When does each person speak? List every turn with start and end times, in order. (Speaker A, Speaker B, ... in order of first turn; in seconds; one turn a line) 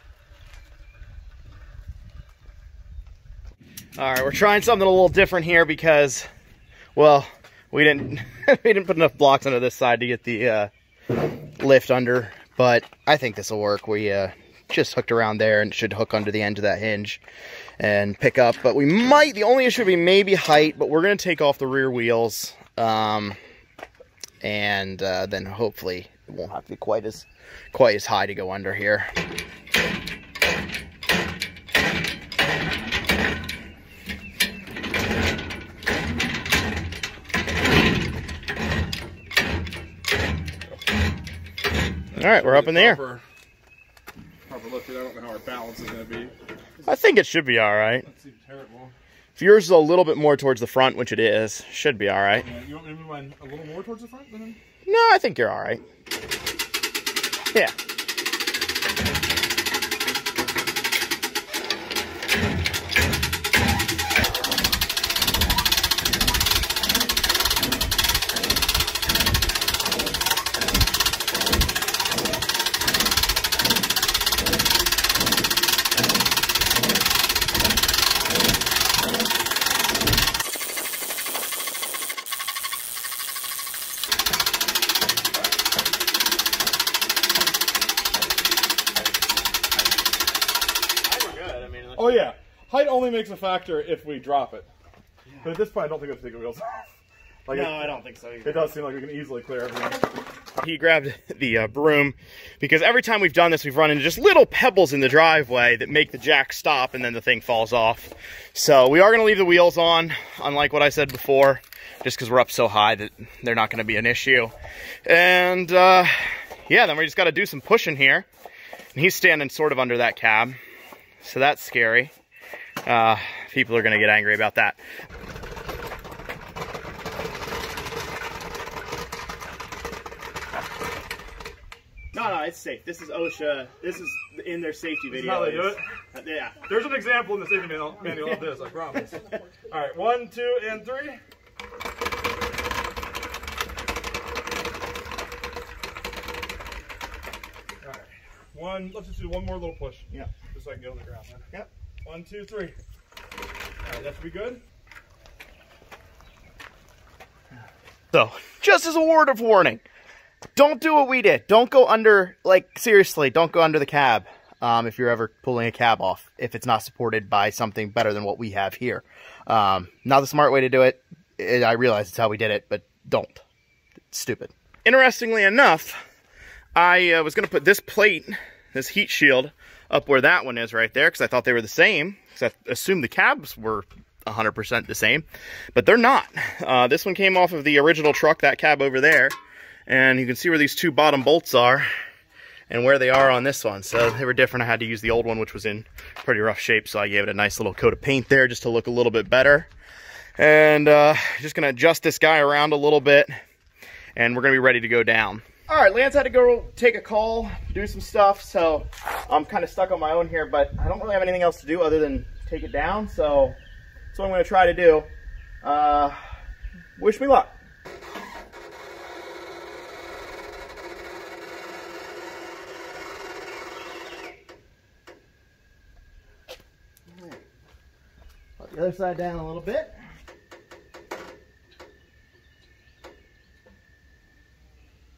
Speaker A: 4.0-6.3
Speaker A: 6.9-10.7
Speaker A: 11.6-17.2
Speaker A: 17.8-23.4
Speaker A: 24.4-29.1
Speaker B: 42.1-43.2
Speaker A: 42.1-43.0
Speaker B: 44.5-46.3
Speaker A: 46.8-48.0
Speaker B: 48.0-49.0
Speaker A: 49.4-52.5
Speaker B: 52.4-54.6
Speaker A: 54.9-55.8
Speaker A: 91.0-92.3
Speaker B: 91.9-94.7
Speaker B: 95.4-96.9
Speaker B: 97.5-97.9
Speaker A: 97.5-98.7
Speaker B: 98.4-100.0
Speaker A: 100.6-114.5
Speaker A: 115.0-118.2
Speaker A: 118.9-120.6
Speaker A: 121.2-122.1
Speaker A: 122.8-124.8
Speaker A: 132.1-136.6
Speaker B: 135.1-135.8
Speaker B: 136.6-141.2
Speaker B: 147.8-151.5
Speaker B: 152.0-152.8
Speaker B: 153.8-154.6
Speaker A: 158.1-159.8
Speaker A: 160.6-173.4
Speaker A: 174.1-176.0
Speaker A: 176.8-189.3
Speaker A: 189.9-191.9
Speaker A: 192.7-199.7
Speaker A: 200.4-203.3
Speaker A: 204.2-213.6
Speaker A: 214.1-215.1
Speaker A: 215.6-216.2
Speaker A: 217.0-217.5
Speaker A: 227.1-227.4
Speaker A: 228.6-229.9